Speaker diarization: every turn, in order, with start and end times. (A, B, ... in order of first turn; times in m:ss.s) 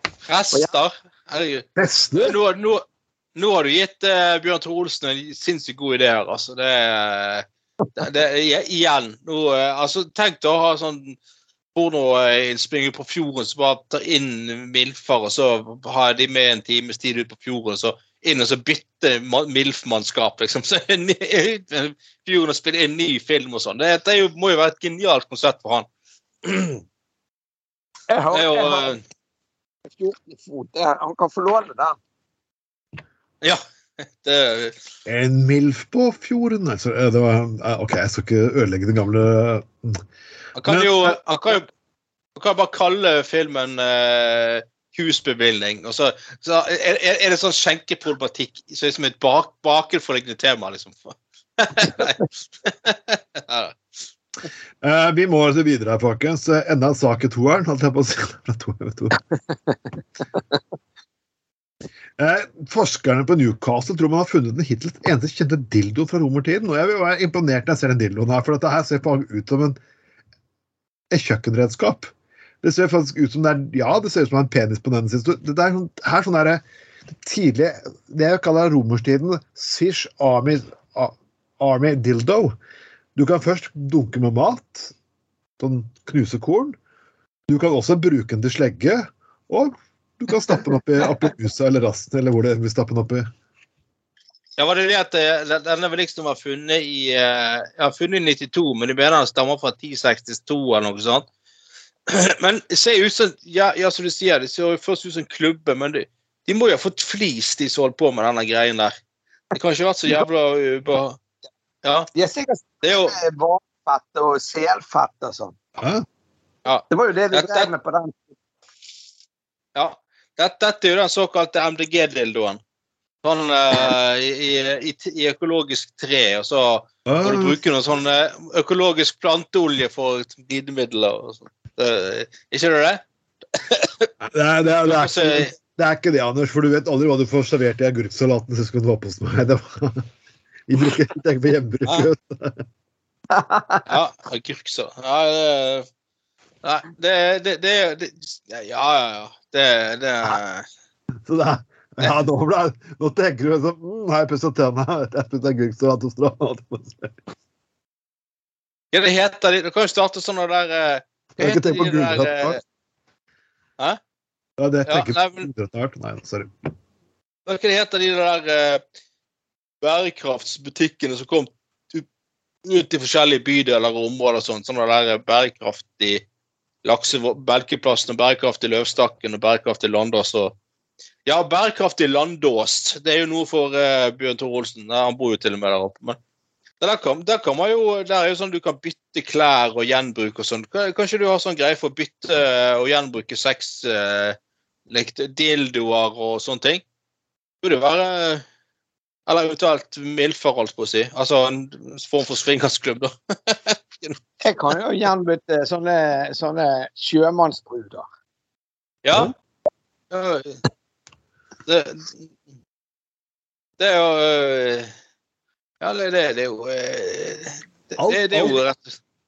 0:00.3-0:01.6 A
0:01.8-0:02.4 B
0:02.2-0:02.8 A
0:03.4-0:07.4 A
0:08.0-0:11.2 A
0:11.7-0:25.9 A
0:26.4-0:26.8 A
0:28.1-0:28.9 C
0:28.3-0:29.0 A
0:29.8-0:32.0 C
0:33.4-0:34.8 A
0:35.0-0:40.0 B
0:40.6-0:41.7 A
0:40.6-0:41.2 B
0:42.4-0:53.8 A
0:54.8-0:59.2 B
1:02.2-1:09.8 B
1:11.1-1:22.5 B
1:23.2-1:24.9 B
1:25.6-1:26.8 B
1:27.5-1:33.3 B
1:34.6-1:41.2 A
1:42.1-1:48.9 A
1:49.5-1:51.2 A
1:51.8-1:52.1 A
1:52.1-1:55.6 C
1:52.8-1:53.1 A
1:55.8-1:56.0 B
1:56.6-1:57.7 A
1:56.9-1:58.2 C
1:59.7-2:02.6 A
2:03.2-2:13.0 A
2:07.1-2:07.6 B
2:13.6-2:14.1 A
2:14.2-2:20.1 B
2:14.8-2:15.5 A
2:20.7-2:22.6 B
2:23.3-2:23.9 C
2:23.9-2:25.8 A
2:26.6-2:30.6 A
2:31.2-2:37.2 B
2:38.9-2:42.6 A
2:41.4-2:42.6 B
2:44.6-2:46.5 B
2:44.9-2:45.5 A
2:47.4-2:48.8 A
2:49.8-2:52.0 A
2:52.6-2:56.2 A
2:56.8-3:00.5 A
3:01.2-3:06.2 A
3:06.8-3:14.4 A
3:14.9-3:16.8 A
3:17.6-3:18.4 A
3:19.3-3:24.2 A
3:24.4-3:28.0 C
3:29.0-3:29.3 A
3:30.1-3:30.6 A
3:31.6-3:32.3 A
3:33.8-3:34.9 A
3:35.8-3:39.0 A
3:38.0-3:38.6 B